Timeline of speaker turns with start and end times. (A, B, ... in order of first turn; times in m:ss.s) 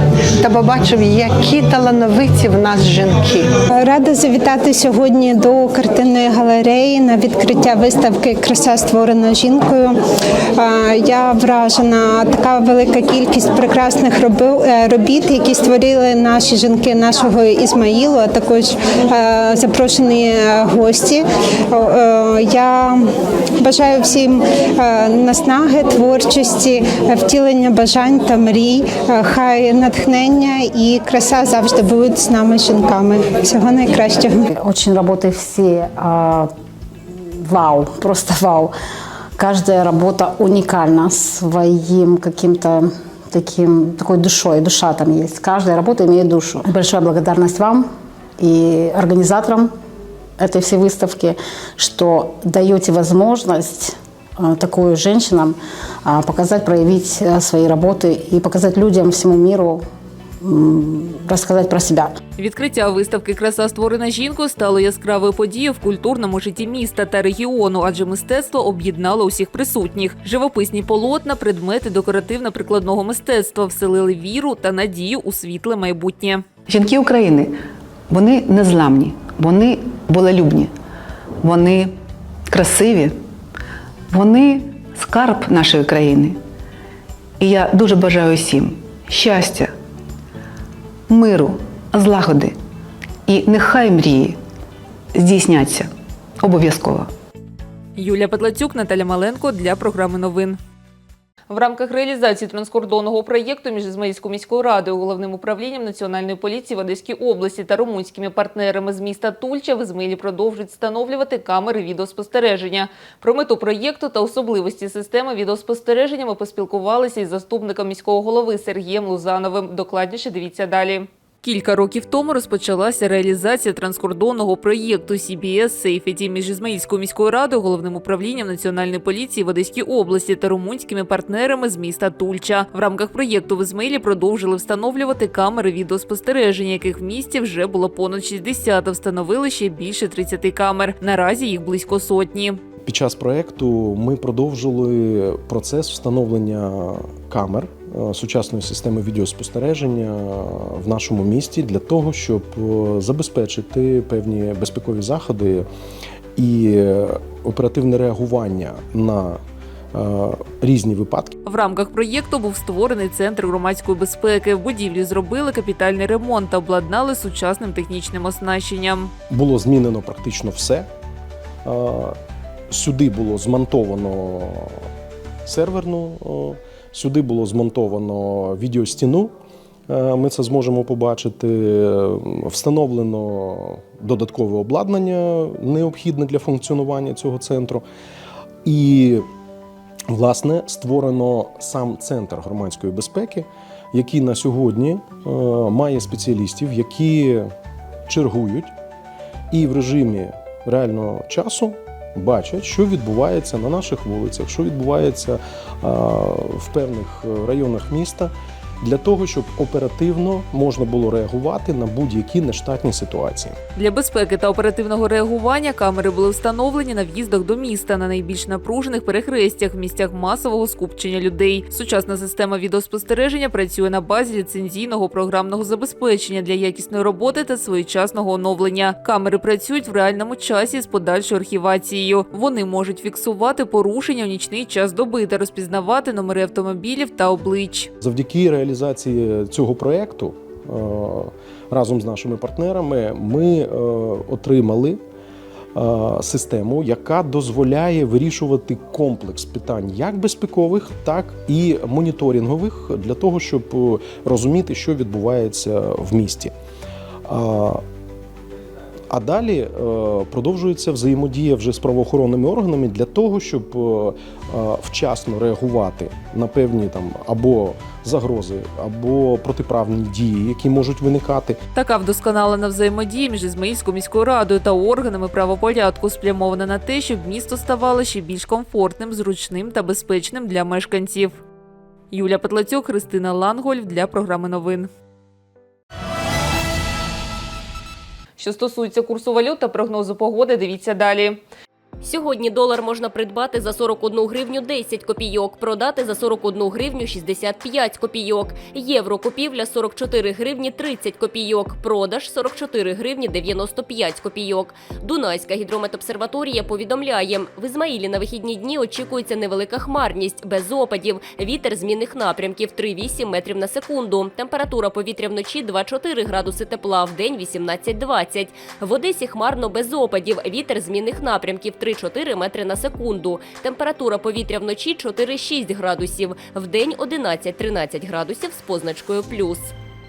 0:00.4-0:03.5 A
0:03.7-0:09.9 B
0:10.6-0:23.0 B
0:23.6-0:34.4 B
0:34.5-0:36.5 C
0:37.4-0:38.7 C
0:39.4-0:47.9 C
0:48.4-0:49.7 C
0:50.4-0:59.8 C
1:00.4-1:02.1 C
1:02.4-1:16.4 D
1:16.7-1:17.5 E
1:18.1-1:20.7 E
1:21.4-1:21.9 E
1:22.5-1:23.1 E
1:24.1-1:26.4 E
1:27.4-1:29.7 E
1:31.1-1:32.5 E
1:33.3-1:34.4 E
1:35.1-1:35.9 E
1:36.4-1:37.1 E
1:38.0-1:40.6 D
1:41.5-2:22.6 D
2:22.8-2:35.6 F
2:36.4-2:39.4 F
2:39.9-2:41.3 F
2:41.4-2:49.1 D
2:49.3-2:50.9 F
2:51.6-2:52.2 F
2:52.7-2:54.8 F
2:55.4-2:59.3 F
2:59.9-3:07.8 F
3:08.6-3:09.2 F
3:10.1-3:17.5 F
3:18.1-3:18.7 F
3:19.5-3:28.3 F
3:28.8-3:33.6 F
3:33.8-3:57.9 D
3:58.0-4:05.0 F
4:05.8-4:16.5 F
4:17.2-4:17.8 F
4:19.1-4:31.6 F
4:31.7-4:41.4 D
4:42.1-4:44.9 D
4:48.4-4:51.4 D
4:52.0-5:29.7 G